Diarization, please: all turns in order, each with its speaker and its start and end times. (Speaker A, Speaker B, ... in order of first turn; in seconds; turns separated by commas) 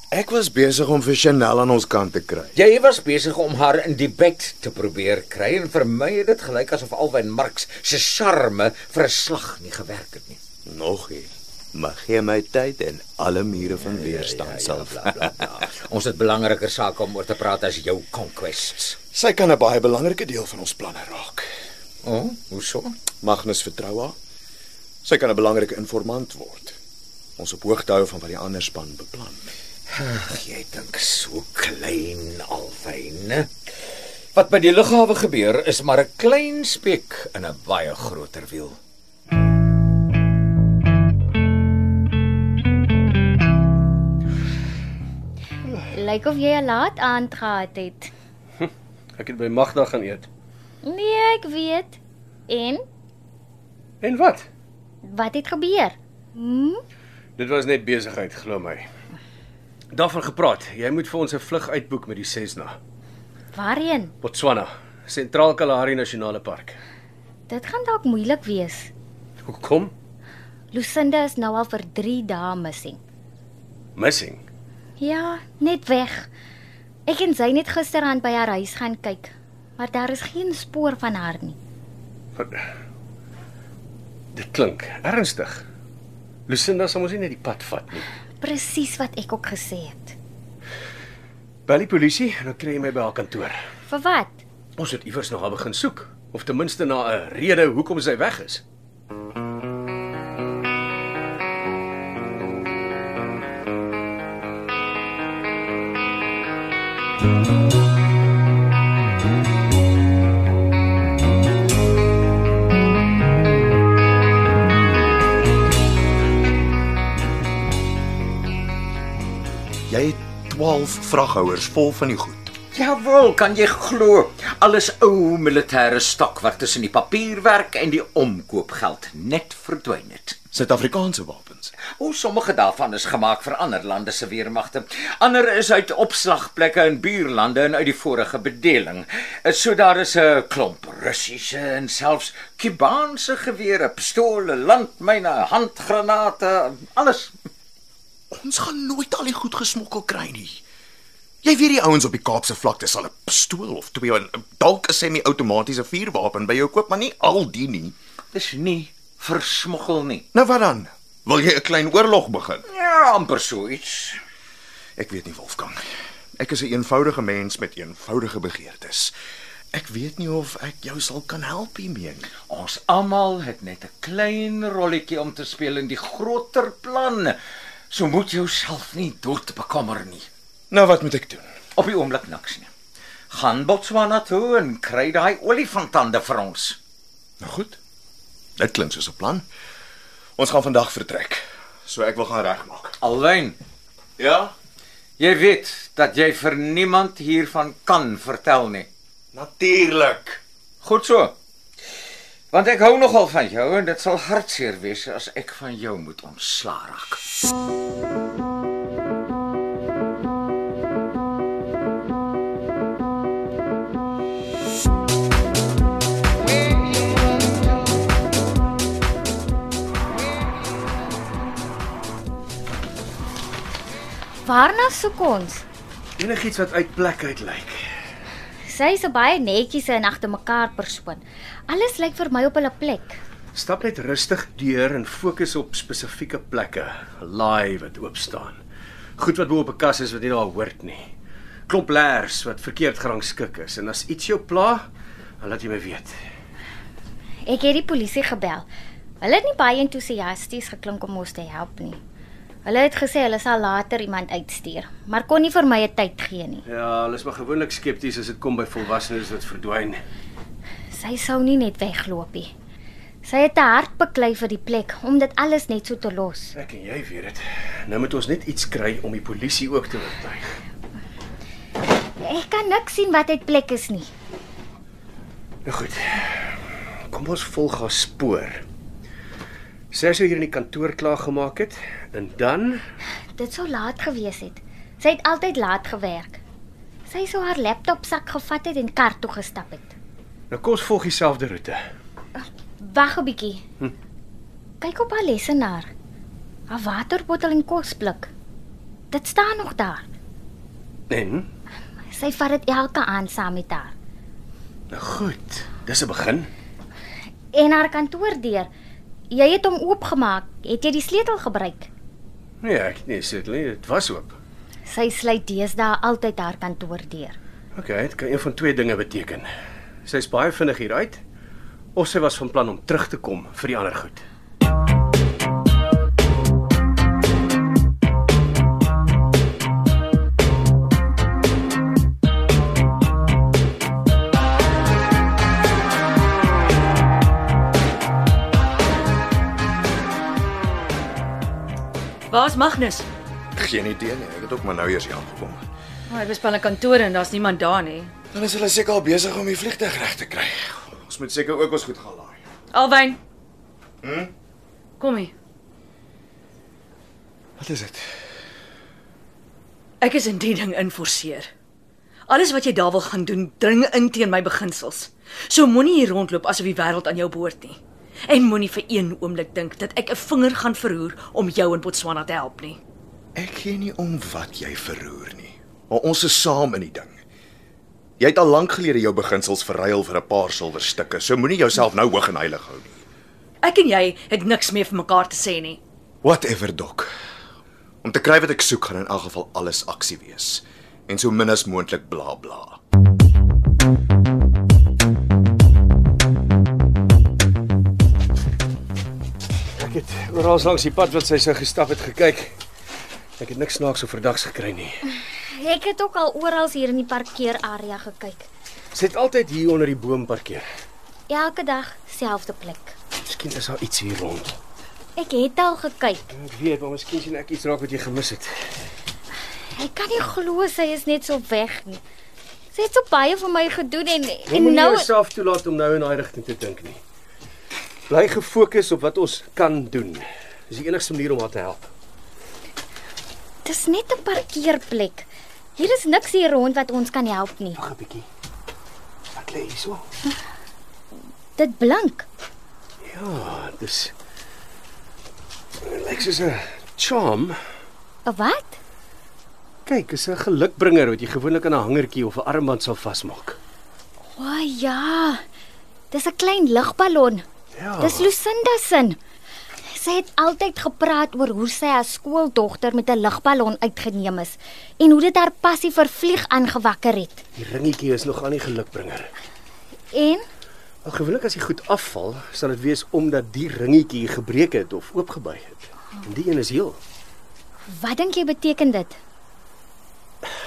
Speaker A: 0.1-2.5, Speaker B: 2.5-10.4, Speaker A: 10.7-15.4, Speaker B: 13.8-19.0, Speaker A: 19.1-21.5, Speaker B: 22.0-22.9, Speaker A: 23.2-24.2, Speaker A: 25.1-26.8, Speaker A: 27.4-29.5, Speaker B: 29.9-33.5, Speaker B: 34.4-38.8, Speaker C: 45.9-48.1, Speaker D: 48.6-50.3, Speaker C: 50.8-52.8, Speaker D: 54.0-54.5, Speaker C: 55.0-56.8, Speaker D: 57.4-58.9, Speaker D: 59.9-62.8, Speaker C: 63.5-64.2, Speaker D: 64.2-66.8, Speaker C: 67.5-68.9, Speaker D: 69.4-69.9, Speaker C: 70.7-73.0, Speaker D: 74.0-74.4, Speaker C: 75.0-76.3, Speaker C: 77.1-81.6, Speaker D: 82.4-82.7, Speaker D: 84.3-85.7, Speaker D: 86.5-88.1, Speaker C: 88.4-90.2, Speaker D: 91.7-93.6, Speaker C: 93.9-94.4, Speaker D: 94.8-98.6, Speaker A: 119.9-122.5, Speaker B: 122.7-130.4, Speaker A: 130.5-131.7, Speaker B: 131.9-147.3, Speaker A: 148.3-150.6, Speaker A: 151.4-158.0, Speaker B: 158.3-160.3, Speaker A: 160.3-162.6, Speaker B: 162.7-164.2, Speaker A: 165.0-165.8, Speaker A: 166.4-169.1, Speaker A: 169.7-172.3, Speaker B: 172.4-177.4, Speaker B: 177.9-180.3, Speaker A: 180.7-181.5, Speaker B: 181.8-182.7, Speaker B: 183.3-186.8, Speaker A: 187.4-187.8, Speaker A: 188.6-189.4, Speaker A: 190.4-193.0, Speaker B: 193.0-193.6, Speaker A: 194.2-194.5, Speaker B: 195.2-198.9, Speaker A: 199.3-200.4, Speaker B: 200.8-201.3, Speaker B: 202.5-207.2, Speaker C: 224.4-225.7, Speaker D: 226.2-227.8, Speaker C: 228.7-233.2, Speaker D: 233.5-238.6, Speaker D: 239.2-241.1, Speaker D: 241.7-244.9, Speaker D: 245.4-246.2, Speaker C: 247.5-248.7, Speaker C: 249.2-252.0, Speaker C: 252.7-256.6, Speaker D: 256.7-260.0, Speaker C: 260.9-262.5, Speaker C: 263.2-266.5, Speaker D: 266.6-270.5, Speaker C: 272.2-274.1, Speaker D: 275.6-276.6, Speaker D: 277.1-278.6, Speaker D: 279.9-282.8, Speaker C: 283.4-286.4, Speaker C: 287.1-289.9, Speaker D: 290.5-291.8, Speaker C: 292.4-293.6, Speaker C: 294.8-295.9, Speaker C: 296.7-298.3, Speaker C: 299.1-300.1, Speaker D: 301.1-301.5, Speaker C: 302.1-303.9, Speaker D: 304.9-306.5, Speaker C: 307.5-308.7, Speaker C: 309.3-311.9, Speaker D: 312.6-314.4, Speaker C: 314.9-317.4, Speaker D: 317.8-319.5, Speaker D: 320.1-321.2, Speaker D: 322.0-324.2, Speaker E: 342.3-343.1, Speaker A: 343.6-345.7, Speaker E: 346.1-348.1, Speaker A: 348.3-352.4, Speaker E: 352.7-353.2, Speaker A: 354.0-354.3, Speaker E: 355.0-355.3, Speaker E: 360.0-361.5, Speaker E: 362.3-372.8, Speaker A: 373.4-377.2, Speaker A: 378.2-383.0, Speaker E: 383.6-385.8, Speaker A: 386.2-387.1, Speaker A: 388.0-392.8, Speaker D: 399.8-402.6, Speaker D: 403.4-404.9, Speaker C: 405.2-408.5, Speaker D: 408.9-410.7, Speaker C: 411.3-413.0, Speaker D: 413.3-414.6, Speaker C: 415.2-416.3, Speaker D: 416.3-418.5, Speaker C: 419.7-422.0, Speaker C: 422.7-425.1, Speaker D: 424.5-427.0, Speaker D: 428.1-431.9, Speaker C: 433.6-437.8, Speaker D: 437.8-438.3, Speaker D: 439.4-440.1, Speaker C: 441.6-442.3, Speaker D: 443.1-444.1, Speaker D: 445.8-447.6, Speaker C: 448.3-448.8, Speaker D: 449.9-453.6, Speaker C: 454.4-455.4, Speaker C: 456.1-457.4, Speaker D: 457.8-458.3, Speaker C: 458.0-459.2, Speaker C: 459.9-467.4, Speaker D: 467.6-469.3, Speaker C: 470.1-470.4, Speaker D: 471.0-477.0, Speaker C: 477.9-479.2